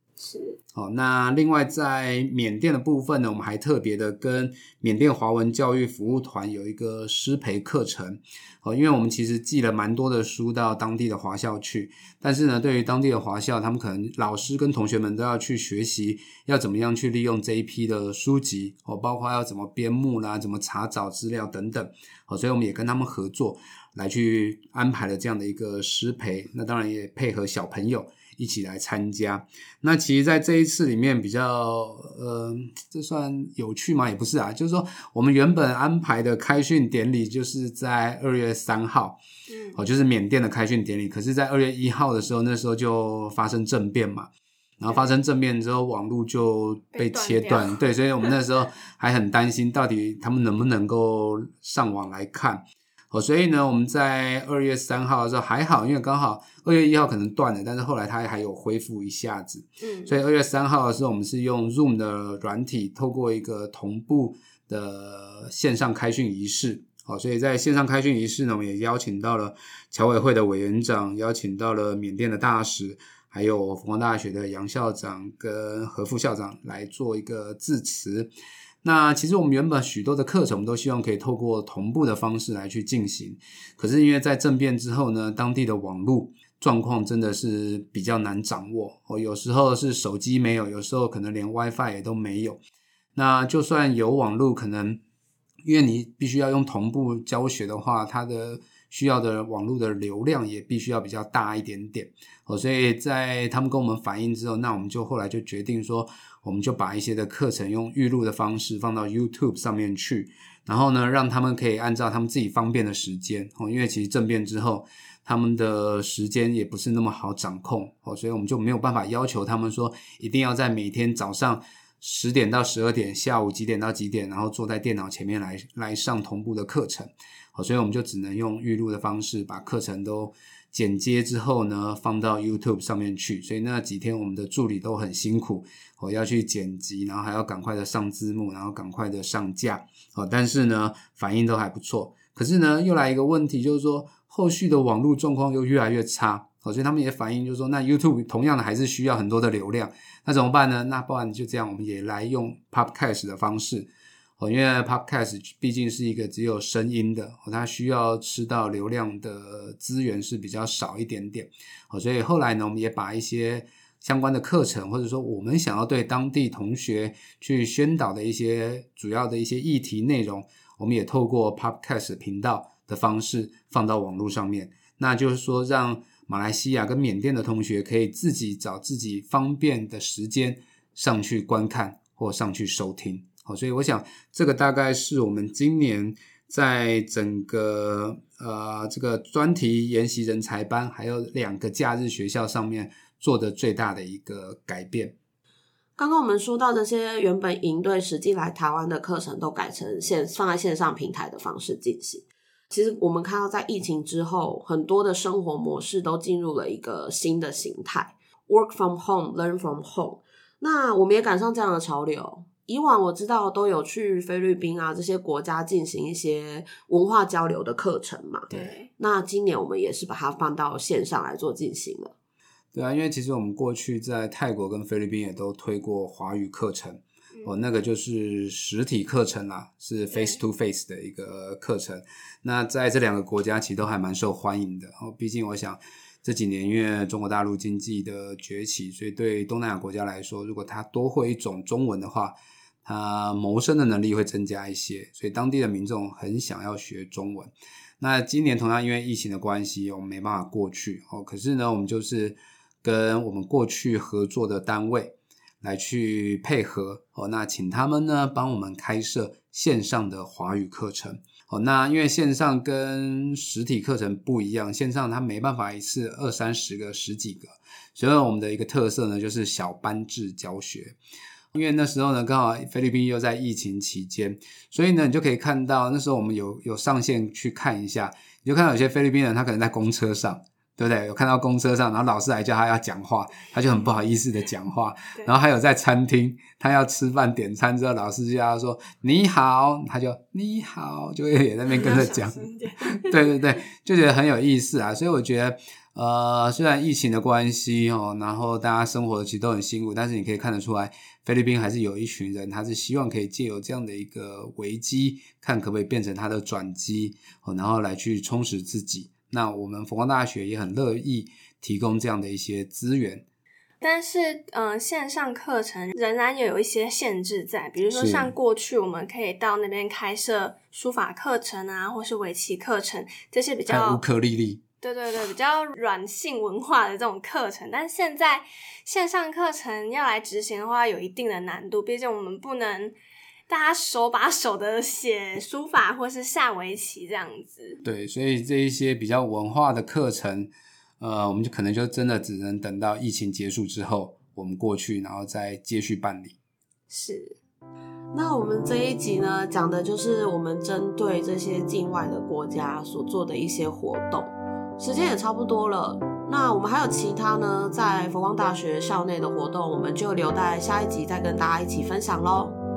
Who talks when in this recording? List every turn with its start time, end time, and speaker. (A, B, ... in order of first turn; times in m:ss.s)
0:00.2-0:00.6 A
0:00.7-0:39.2 B
0:39.5-0:39.8 A
0:39.8-1:18.3 B
0:46.9-0:48.3 A
0:59.8-1:00.2 A
1:18.8-1:32.6 B
1:33.1-1:35.0 B
1:35.6-3:15.1 B
3:16.0-3:42.1 C
3:38.5-3:38.9 A
3:42.7-4:30.9 B
3:50.1-3:50.4 A
4:31.5-5:13.2 B
4:51.7-4:53.4 A
5:13.8-5:24.0 A
5:17.9-5:18.3 B
5:23.7-5:24.6 B
5:24.8-5:32.9 A
5:33.5-5:37.8 A
5:37.8-5:46.4 B
5:46.9-5:47.4 A
5:48.1-6:02.6 C